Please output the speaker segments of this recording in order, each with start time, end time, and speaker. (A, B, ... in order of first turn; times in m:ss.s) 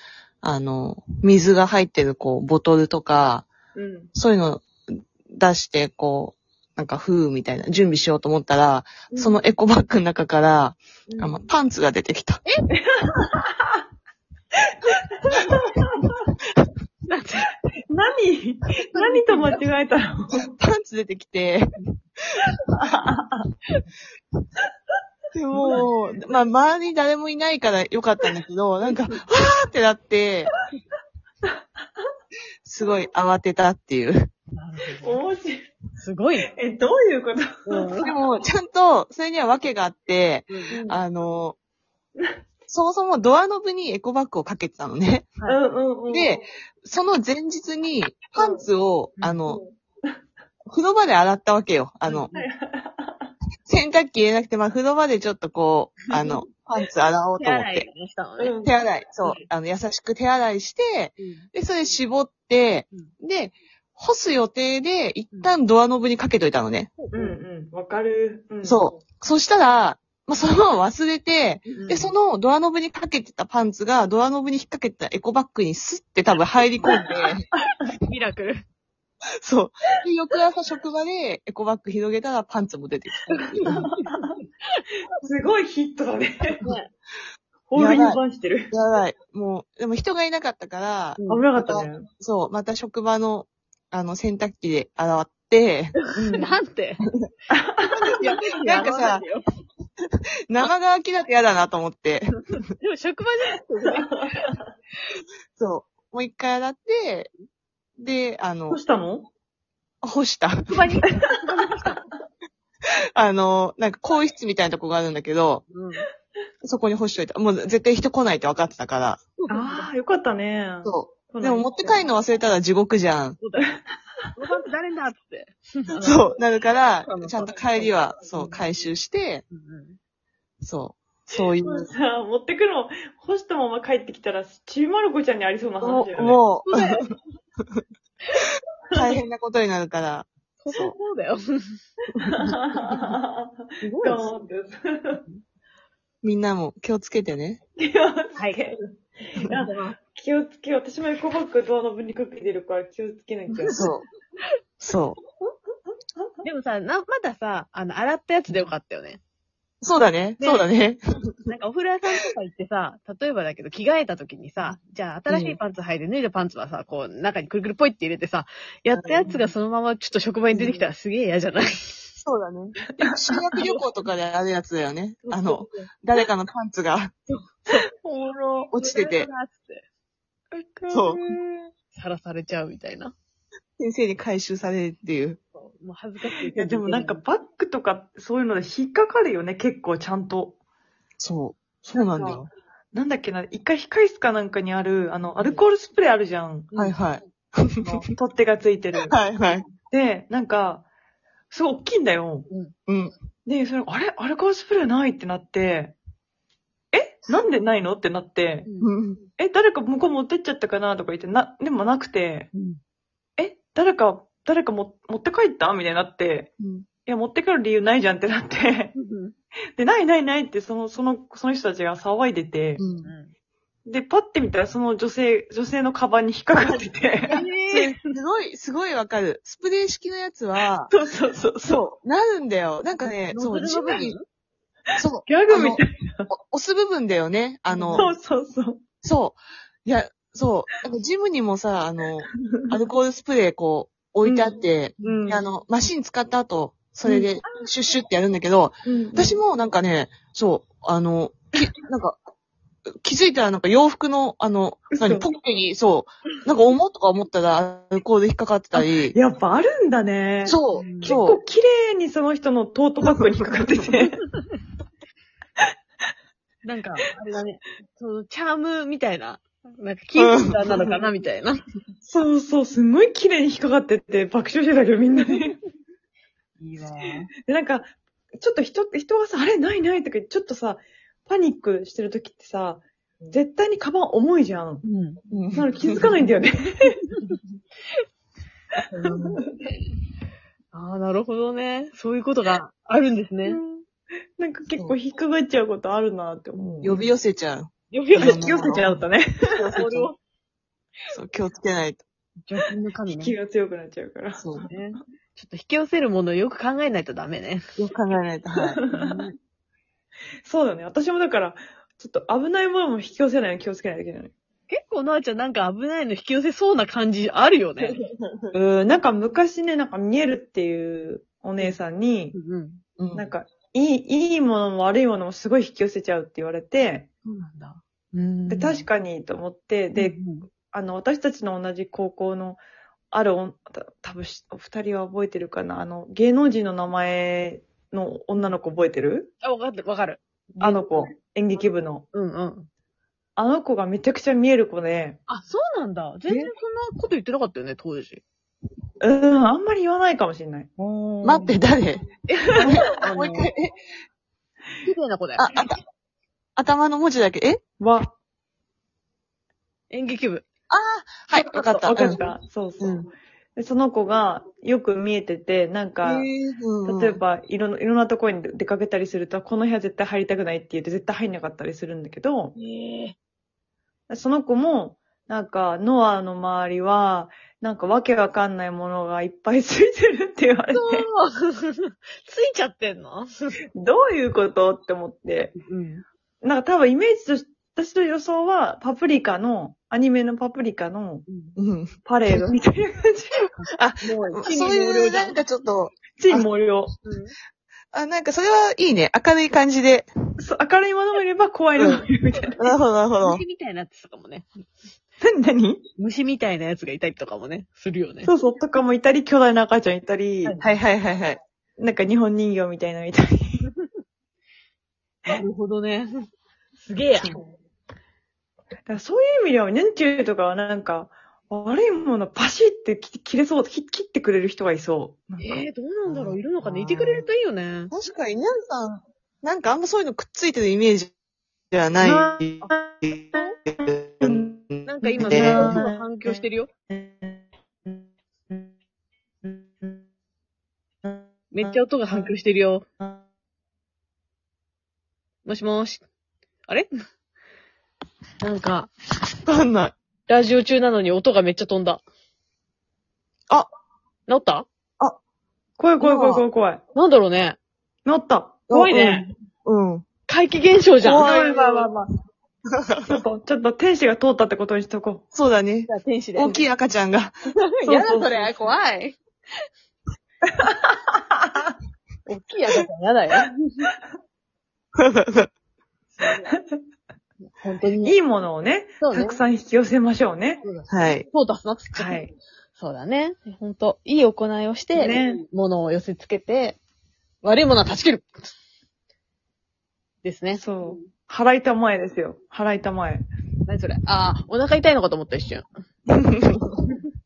0:00.4-0:03.5 A
0:03.7-0:04.1 B
0:04.1-0:12.4 A
0:09.1-0:09.4 B
0:11.1-0:11.4 B
0:12.8-0:13.8 B
0:15.2-0:16.1 B
0:17.1-0:17.5 C
0:17.9-0:20.4 B
0:20.4-0:21.6 A
0:22.8-0:23.4 B
0:25.3-0:30.5 A
0:25.6-0:25.8 B
0:32.6-0:34.3 A
0:34.5-0:35.2 C
0:35.0-0:35.6 B
0:36.0-0:36.5 C
0:36.5-0:38.1 B
0:37.6-0:38.1 C
0:38.0-0:41.6 A
0:40.5-0:40.8 C
0:40.7-0:41.0 B
0:42.7-0:45.3 A
0:45.4-0:46.4 B
0:46.1-0:49.6 A
0:48.3-0:48.6 B
0:49.4-0:50.2 B
0:50.7-0:52.3 A
0:52.1-0:53.3 B
0:53.6-0:57.9 A
0:57.4-0:58.5 C
0:58.4-0:59.4 B
0:58.6-1:06.9 A
1:01.2-1:01.4 C
1:07.0-1:07.4 C
1:07.1-1:08.8 B
1:08.6-1:17.4 A
1:11.7-1:12.1 C
1:16.8-1:17.1 C
1:18.0-1:18.6 C
1:19.4-1:23.8 A
1:23.6-1:24.8 C
1:23.6-1:24.3 B
1:25.2-1:26.6 B
1:26.6-1:26.9 C
1:27.7-1:28.7 B
1:27.7-1:28.2 A
1:28.7-1:35.9 A
1:31.2-1:31.4 C
1:31.3-1:32.0 B
1:36.0-1:37.0 C
1:36.1-1:36.5 B
1:37.5-1:38.2 B
1:38.0-1:39.2 A
1:38.1-1:39.4 C
1:40.5-1:42.3 A
1:42.8-1:44.1 C
1:43.9-1:44.4 B
1:45.6-1:47.3 A
1:48.0-1:48.8 A
1:48.7-1:49.3 B
1:50.0-1:50.8 A
1:50.7-1:52.0 C
1:51.1-1:51.3 B
1:53.2-1:55.6 A
1:55.7-1:56.1 C
1:56.6-1:59.2 A
1:59.4-1:59.9 C
1:59.5-2:02.1 B
2:00.8-2:03.4 A
2:03.4-2:03.7 C
2:04.4-2:06.2 C
2:06.0-2:09.4 A
2:07.0-2:08.6 C
2:09.5-2:10.0 C
2:10.6-2:11.9 A
2:11.4-2:16.4 B
2:15.8-2:16.9 A
2:16.7-2:17.0 C
2:18.9-2:21.0 A
2:20.6-2:21.8 C
2:22.2-2:22.5 A
2:22.3-2:25.2 B
2:23.8-2:24.3 C
2:26.2-2:27.6 A
2:27.8-2:33.8 B
2:28.3-2:28.6 C
2:29.5-2:30.0 C
2:33.7-2:34.0 A
2:34.8-2:35.2 A
2:36.4-2:39.2 C
2:39.8-2:41.0 A
2:40.4-2:40.7 C
2:41.5-2:52.2 C
2:45.3-2:45.6 A
2:48.9-2:49.3 A
2:50.5-2:50.8 A
2:52.2-2:57.1 A
2:53.0-2:53.6 B
2:53.6-2:53.8 C
2:55.2-2:55.6 B
2:57.3-2:59.8 C
2:58.7-2:59.3 A
3:00.6-3:01.7 B
3:00.9-3:01.2 A
3:01.9-3:03.1 C
3:03.8-3:05.4 A
3:05.5-3:07.2 C
3:06.5-3:10.6 B
3:11.2-3:12.5 A
3:11.9-3:12.4 B
3:12.9-3:16.7 B
3:16.8-3:18.0 A
3:17.8-3:19.2 B
3:19.1-3:19.6 A
3:19.7-3:20.8 B
3:21.5-3:22.5 B
3:22.5-3:22.7 C
3:22.9-3:23.1 A
3:23.4-3:26.0 B
3:26.9-3:28.7 B
3:28.6-3:28.9 C
3:28.8-3:29.2 A
3:29.4-3:32.5 B
3:32.5-3:32.8 C
3:33.4-3:36.5 B
3:36.6-3:36.9 A
3:37.0-3:38.9 B
3:39.0-3:39.3 C
3:39.8-3:42.8 B
3:42.8-3:43.1 A
3:43.0-3:43.3 C
3:43.8-3:47.4 B
3:47.3-3:47.9 C
3:47.7-3:50.9 A
3:50.9-3:51.8 B
3:51.6-3:54.2 A
3:53.3-3:54.2 C
3:55.0-3:58.1 A
3:55.2-3:56.3 B
3:57.7-3:58.1 C
3:57.9-3:58.8 B
3:59.0-4:12.2 A
4:04.2-4:05.4 B
4:07.0-4:07.3 B
4:08.8-4:09.4 B
4:13.0-4:19.1 A
4:14.9-4:15.2 B
4:18.7-4:24.2 B
4:20.4-4:21.4 A
4:20.7-4:21.2 C
4:23.0-4:23.9 A
4:26.6-4:31.6 C
4:30.2-4:30.6 A
4:30.7-4:31.0 B
4:32.0-4:35.6 B
4:36.6-4:37.3 C
4:37.5-4:44.8 B
4:44.8-4:45.2 C
4:45.3-4:46.0 A
4:45.5-4:47.0 B
4:48.9-4:49.4 C
4:49.2-4:49.4 B
4:50.7-4:53.6 C
4:53.4-4:53.9 B
4:54.4-4:57.0 B
4:56.6-4:56.8 C
4:56.8-4:58.9 A
4:57.9-4:59.0 C
4:58.2-4:59.7 B
4:59.5-5:00.1 A
4:59.8-5:00.2 C
5:01.1-5:02.0 A
5:02.4-5:03.4 C
5:03.1-5:04.5 B
5:04.4-5:04.7 A
5:04.6-5:07.6 C
5:07.8-5:08.8 A
5:08.7-5:09.2 B
5:08.9-5:09.3 C
5:10.4-5:14.3 B
5:14.7-5:18.0 C
5:18.5-5:22.3 B
5:22.3-5:22.8 C
5:23.0-5:23.3 A
5:23.1-5:27.1 B
5:27.2-5:28.8 C
5:28.5-5:32.6 B
5:29.9-5:30.4 C
5:33.1-5:39.3 B
5:39.4-5:41.1 C
5:40.6-5:42.0 B
5:42.1-5:42.7 C
5:43.4-5:45.2 B
5:45.3-5:48.2 C
5:49.0-5:51.6 B
5:51.2-5:52.0 A
5:52.3-5:53.5 C
5:52.5-5:52.8 B
5:52.6-5:53.7 A
5:54.8-5:55.5 C
5:55.4-5:55.8 A
5:56.6-5:57.6 A
5:57.8-5:58.1 B
5:59.9-6:00.4 C
6:00.7-6:02.2 A
6:01.3-6:03.0 B
6:02.0-6:02.3 C
6:03.6-6:06.3 B
6:06.0-6:07.2 A
6:06.8-6:12.5 B
6:12.6-6:13.1 C
6:14.1-6:21.1 B
6:20.7-6:23.3 C
6:23.8-6:25.5 B
6:25.5-6:26.0 C
6:26.4-6:31.2 B
6:31.3-6:31.6 C
6:31.6-6:32.0 A
6:32.0-6:33.4 B
6:33.6-6:35.4 C
6:33.8-6:36.5 A
6:36.2-6:36.9 B
6:37.0-6:37.3 C
6:37.9-6:40.1 A
6:40.4-6:42.6 B
6:41.8-6:42.0 A
6:42.6-6:43.4 A
6:43.2-6:44.6 C
6:45.2-6:45.8 B
6:46.0-6:48.3 C
6:48.2-6:50.6 B
6:50.6-6:51.4 A
6:51.8-6:53.7 B
6:55.2-6:56.2 C
6:56.8-6:57.3 C
6:57.2-6:57.5 B
6:58.9-7:05.6 B
7:05.4-7:07.9 C
7:06.1-7:07.2 A
7:07.9-7:11.1 A
7:11.7-7:13.1 A
7:12.0-7:13.5 B
7:14.2-7:15.8 A
7:14.2-7:14.5 B
7:14.8-7:16.7 C
7:15.2-7:18.7 B
7:19.4-7:20.0 B
7:21.0-7:22.3 B
7:21.5-7:22.8 C
7:25.4-7:26.0 C
7:28.4-7:28.9 C
7:29.4-7:30.0 A
7:30.3-7:32.0 C
7:34.3-7:34.7 C
7:35.8-7:36.8 B
7:36.0-7:36.4 A
7:36.9-7:37.6 C
7:38.0-7:38.7 B
7:38.7-7:40.0 A
7:38.7-7:39.2 C
7:40.3-7:41.4 C
7:41.0-7:41.9 A
7:41.1-7:42.1 B
7:42.7-7:43.2 A
7:43.0-7:45.2 B
7:45.3-7:47.4 A
7:45.9-7:46.6 C
7:47.8-7:48.7 B
7:47.8-7:49.2 C
7:50.6-7:51.7 B
7:52.2-7:53.5 C
7:55.0-7:55.5 A
7:56.1-7:56.5 C
7:57.5-7:58.2 C
7:58.0-8:00.6 B
7:59.0-7:59.4 C
8:00.6-8:02.2 C
8:00.9-8:01.2 A
8:01.9-8:02.3 B
8:02.7-8:06.8 C
8:04.9-8:05.4 B
8:07.4-8:08.5 C
8:10.2-8:10.9 C
8:10.5-8:13.2 B
8:13.7-8:15.6 C
8:16.1-8:16.7 A